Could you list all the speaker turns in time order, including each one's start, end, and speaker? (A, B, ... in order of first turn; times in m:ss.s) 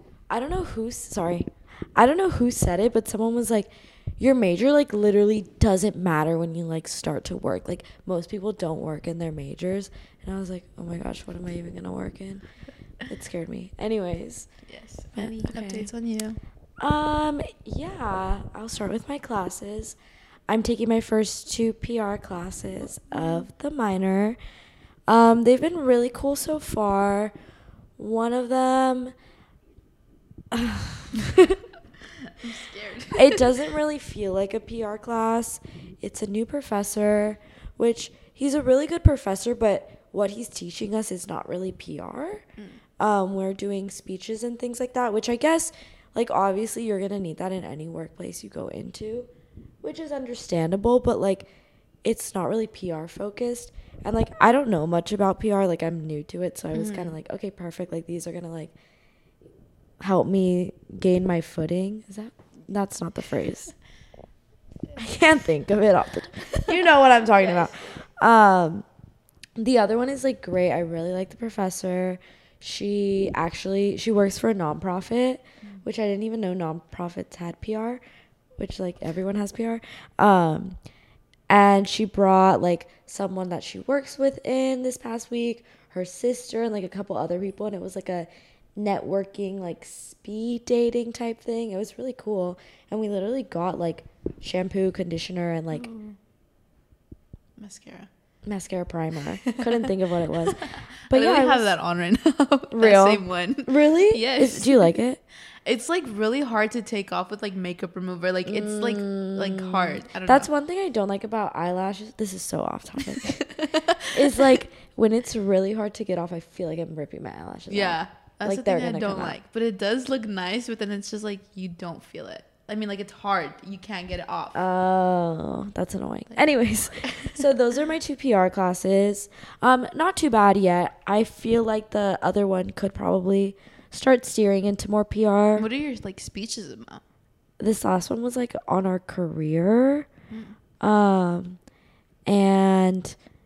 0:00.3-0:12.4 A
0:13.1-0:14.5 A
0:14.7-0:16.4 B
0:15.2-0:15.9 A
0:16.8-0:20.0 A
0:20.5-0:24.4 A
0:23.1-0:23.4 B
0:25.1-0:27.3 A
0:28.0-0:29.1 A
0:30.5-0:31.6 A
0:32.2-0:33.6 B
0:33.1-0:42.5 A
0:43.0-0:49.3 A
0:49.8-0:51.5 A
0:52.0-0:58.7 A
0:56.7-0:57.2 B
1:00.0-1:03.7 A
1:05.0-1:08.8 A
1:06.5-1:07.9 B
1:09.6-1:18.0 A
1:18.6-1:20.8 A
1:21.5-1:35.9 A
1:35.7-1:36.2 B
1:37.6-1:38.1 B
1:38.4-1:41.7 A
1:39.4-1:45.0 B
1:42.7-1:45.2 A
1:45.7-1:50.5 B
1:48.4-1:53.5 A
1:53.1-1:54.6 B
1:54.1-1:59.4 A
1:57.7-2:04.6 B
2:04.5-2:15.7 A
2:07.0-2:07.4 B
2:15.6-2:17.0 B
2:17.6-2:20.1 A
2:20.3-2:20.6 B
2:20.8-2:21.6 A
2:22.3-2:23.2 A